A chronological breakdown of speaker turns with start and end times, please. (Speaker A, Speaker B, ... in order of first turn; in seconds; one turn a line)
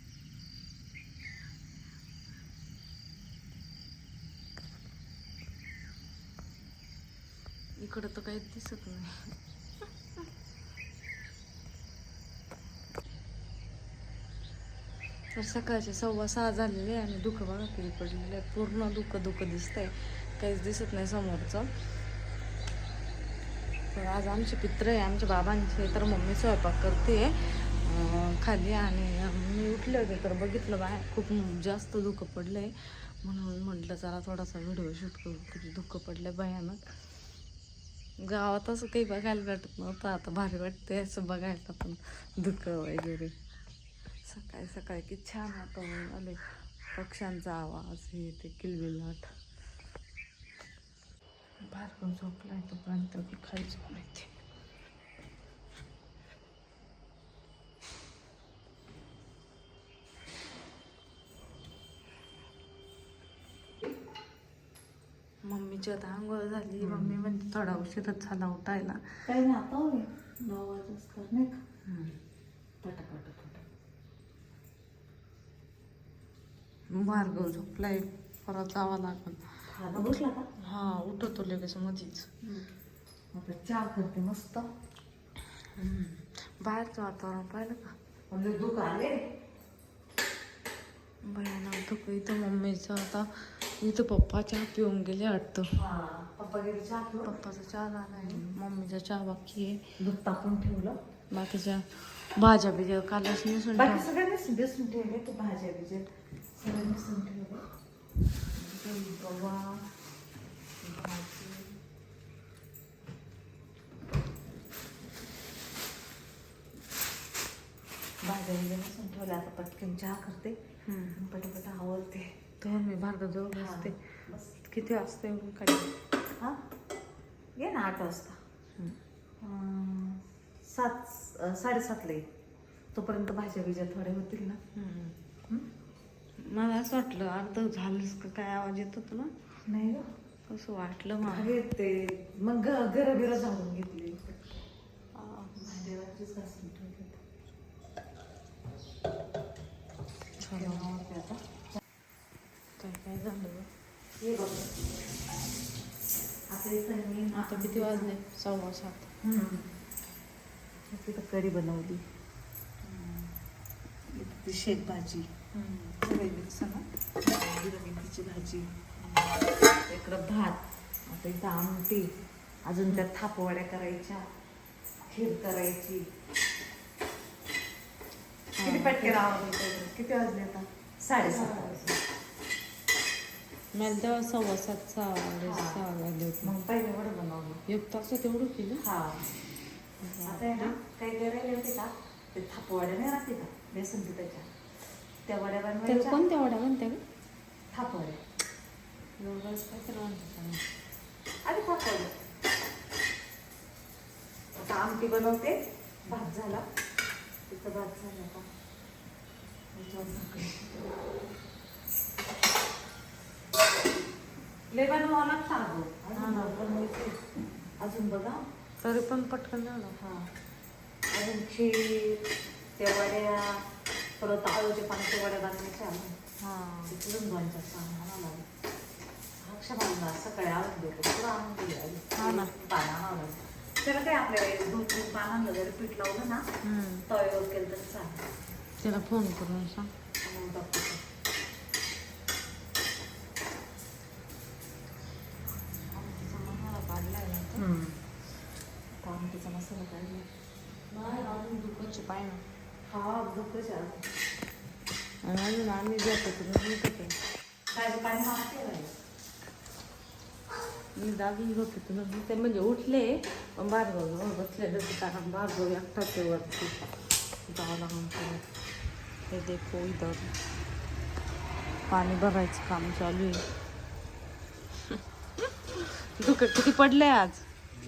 Speaker A: 7.8-9.3
Speaker A: 15.3-21.7
Speaker A: 23.9-36.8
Speaker A: 38.2-43.3
Speaker A: 44.3-46.4
Speaker A: 47.0-49.2
Speaker A: 51.7-54.3
Speaker A: 65.4-69.0
Speaker B: 66.8-67.2
Speaker B: 69.3-71.6
Speaker A: 71.9-72.2
Speaker B: 72.8-73.6
Speaker A: 76.9-79.4
Speaker B: 79.7-80.5
Speaker A: 80.6-82.3
Speaker B: 83.3-84.7
Speaker A: 85.8-88.0
Speaker B: 88.3-89.2
Speaker A: 91.2-95.7
Speaker B: 95.8-97.3
Speaker A: 97.3-99.8
Speaker B: 98.1-98.5
Speaker B: 100.0-101.0
Speaker A: 101.3-104.0
Speaker B: 103.8-106.1
Speaker B: 106.6-107.6
Speaker B: 108.6-109.8
Speaker B: 110.8-111.7
Speaker B: 118.2-120.6
Speaker A: 120.9-121.2
Speaker B: 121.2-122.3
Speaker A: 122.6-124.0
Speaker B: 123.5-124.5
Speaker A: 124.6-125.9
Speaker B: 127.6-128.4
Speaker B: 129.4-132.3
Speaker B: 132.9-134.6
Speaker A: 134.7-135.2
Speaker A: 136.4-139.3
Speaker B: 139.7-140.1
Speaker A: 140.5-141.5
Speaker B: 141.3-144.6
Speaker A: 145.2-145.5
Speaker B: 145.6-147.2
Speaker A: 150.4-150.9
Speaker B: 150.5-151.4
Speaker A: 152.8-153.7
Speaker B: 154.2-154.7
Speaker B: 156.5-158.1
Speaker A: 157.3-159.1
Speaker B: 159.2-159.7
Speaker B: 160.9-162.0
Speaker B: 162.8-163.3
Speaker B: 164.1-169.3
Speaker B: 169.9-172.1
Speaker B: 172.7-174.2
Speaker B: 175.1-176.0
Speaker A: 178.6-179.2
Speaker B: 178.6-181.9
Speaker A: 181.2-181.8
Speaker A: 183.7-186.5
Speaker B: 185.4-185.8
Speaker B: 186.4-187.6
Speaker A: 187.7-188.8
Speaker B: 188.8-189.2
Speaker A: 190.0-190.8
Speaker B: 190.3-194.5
Speaker B: 195.3-196.2
Speaker A: 195.9-197.0
Speaker B: 197.7-198.2
Speaker A: 199.2-200.6
Speaker B: 201.4-202.1
Speaker B: 204.6-206.6
Speaker B: 207.5-208.5
Speaker B: 209.7-210.9
Speaker B: 214.7-217.2
Speaker A: 216.2-216.6
Speaker B: 217.8-218.4
Speaker A: 218.8-220.0
Speaker B: 220.0-220.3
Speaker B: 221.1-222.2
Speaker B: 222.8-223.6
Speaker B: 224.2-226.2
Speaker A: 226.4-226.9
Speaker B: 226.9-228.4
Speaker B: 229.4-236.4
Speaker A: 232.2-232.5
Speaker A: 236.6-237.1
Speaker B: 237.1-238.2
Speaker A: 238.8-239.9
Speaker B: 240.2-241.0
Speaker A: 245.9-247.6
Speaker B: 247.6-248.0
Speaker B: 249.0-250.3
Speaker A: 250.9-252.4
Speaker B: 252.9-254.0
Speaker A: 255.2-257.1
Speaker B: 257.7-258.9
Speaker A: 261.0-266.8
Speaker A: 267.5-268.4
Speaker A: 269.3-270.3
Speaker A: 271.9-273.4
Speaker A: 274.8-277.4